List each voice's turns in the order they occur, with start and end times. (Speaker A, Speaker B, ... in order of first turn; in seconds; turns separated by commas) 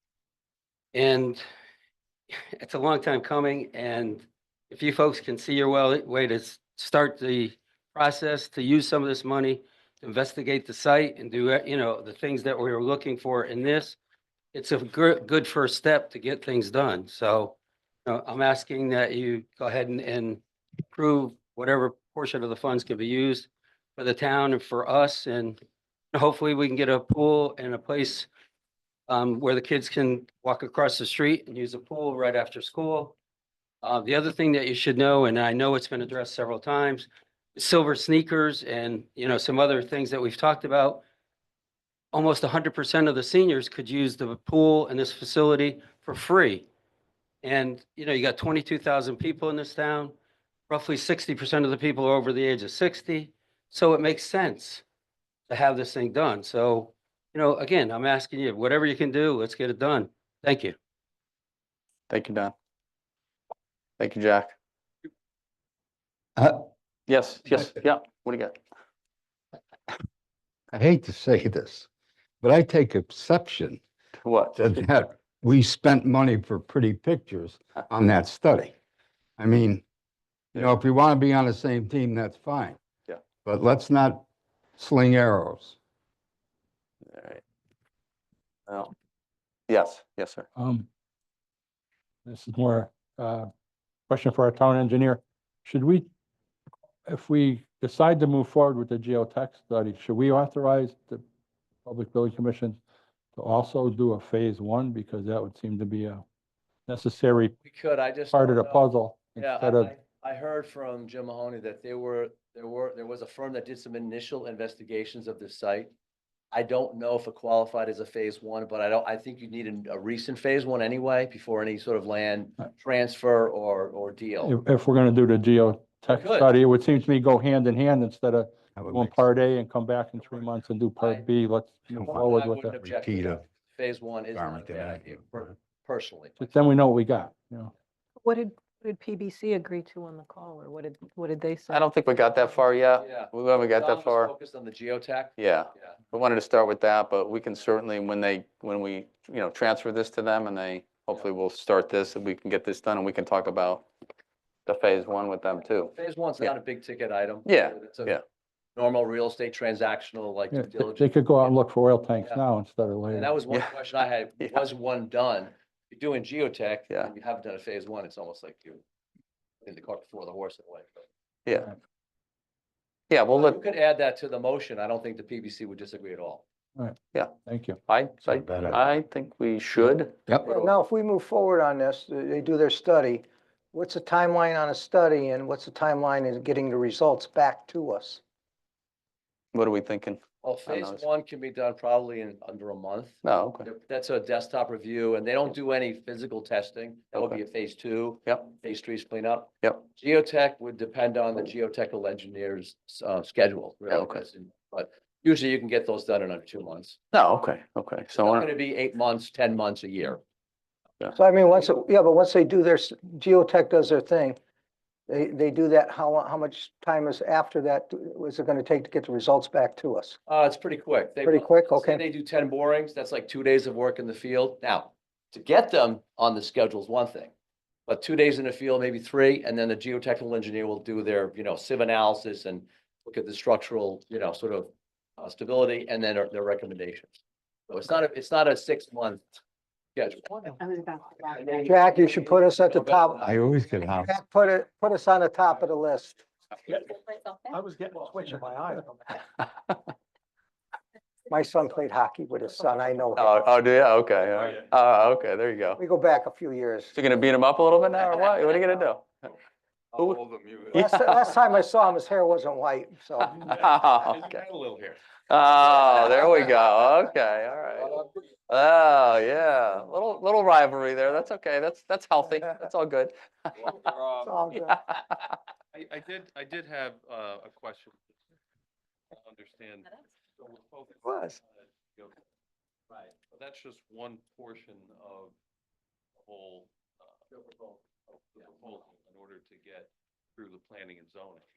Speaker A: 0.9-1.4, Speaker A: 2.6-14.0, Speaker A: 14.5-25.6, Speaker A: 26.1-28.3, Speaker A: 29.1-33.1, Speaker A: 33.8-41.0, Speaker A: 42.1-46.7, Speaker A: 47.4-50.1, Speaker A: 50.7-54.8, Speaker A: 55.5-60.8, Speaker B: 62.1-62.5, Speaker B: 64.0-64.5, Speaker C: 66.4-66.6, Speaker B: 67.1-68.5, Speaker C: 70.7-71.9, Speaker C: 72.4-73.8, Speaker B: 74.2-74.7, Speaker C: 74.6-78.7, Speaker C: 79.4-79.8, Speaker C: 80.5-82.8, Speaker C: 83.4-84.2, Speaker C: 84.8-85.8, Speaker B: 87.1-87.4, Speaker B: 88.7-88.9, Speaker B: 89.7-90.5, Speaker D: 90.5-90.9, Speaker D: 92.2-93.5, Speaker D: 94.1-96.1, Speaker D: 97.0-101.2, Speaker D: 101.8-102.8, Speaker D: 103.3-106.2, Speaker D: 106.9-107.5, Speaker E: 107.6-115.9, Speaker D: 108.3-109.9, Speaker E: 116.5-124.6, Speaker D: 124.4-132.8, Speaker E: 126.1-126.5, Speaker C: 128.7-129.2, Speaker E: 131.0-131.3, Speaker C: 132.0-132.2, Speaker E: 132.1-136.5, Speaker C: 132.8-133.4, Speaker C: 134.3-135.4, Speaker D: 136.4-137.7, Speaker F: 138.2-141.8, Speaker B: 141.7-144.3, Speaker E: 143.0-145.9, Speaker B: 145.4-153.8, Speaker B: 154.7-156.5, Speaker E: 155.8-158.2, Speaker B: 157.4-158.2, Speaker E: 158.7-161.6, Speaker D: 160.5-163.4, Speaker E: 163.1-168.8, Speaker E: 169.6-171.1, Speaker B: 171.4-171.7, Speaker B: 173.1-173.6, Speaker E: 173.3-176.4, Speaker D: 176.8-177.8, Speaker B: 177.1-180.3, Speaker C: 178.3-178.8, Speaker G: 180.4-188.2, Speaker B: 189.5-191.0, Speaker E: 190.4-207.0, Speaker B: 193.2-193.7, Speaker B: 203.9-204.2, Speaker B: 207.1-208.5, Speaker E: 208.2-210.2, Speaker G: 211.1-214.4, Speaker G: 215.1-220.2, Speaker E: 220.3-227.3, Speaker G: 221.2-222.0, Speaker E: 227.9-237.1, Speaker E: 237.7-239.3, Speaker E: 239.9-240.4, Speaker F: 240.6-241.6, Speaker G: 241.6-243.3, Speaker E: 242.6-243.4, Speaker C: 243.2-244.1, Speaker G: 243.9-246.2, Speaker G: 246.7-246.9, Speaker G: 247.5-249.1, Speaker G: 251.3-253.3, Speaker B: 253.2-255.8, Speaker G: 255.8-256.9, Speaker B: 256.9-259.1, Speaker B: 259.9-260.2, Speaker H: 260.1-261.3, Speaker G: 260.7-263.4, Speaker B: 260.7-261.2, Speaker B: 263.2-264.5, Speaker H: 264.2-264.9, Speaker B: 265.3-268.0, Speaker B: 268.5-273.9, Speaker H: 273.7-274.2, Speaker G: 274.2-274.8, Speaker B: 274.6-275.3, Speaker H: 275.7-278.0, Speaker H: 279.2-281.3, Speaker G: 281.0-281.4, Speaker H: 283.3-285.3, Speaker H: 286.2-287.2, Speaker H: 288.4-291.4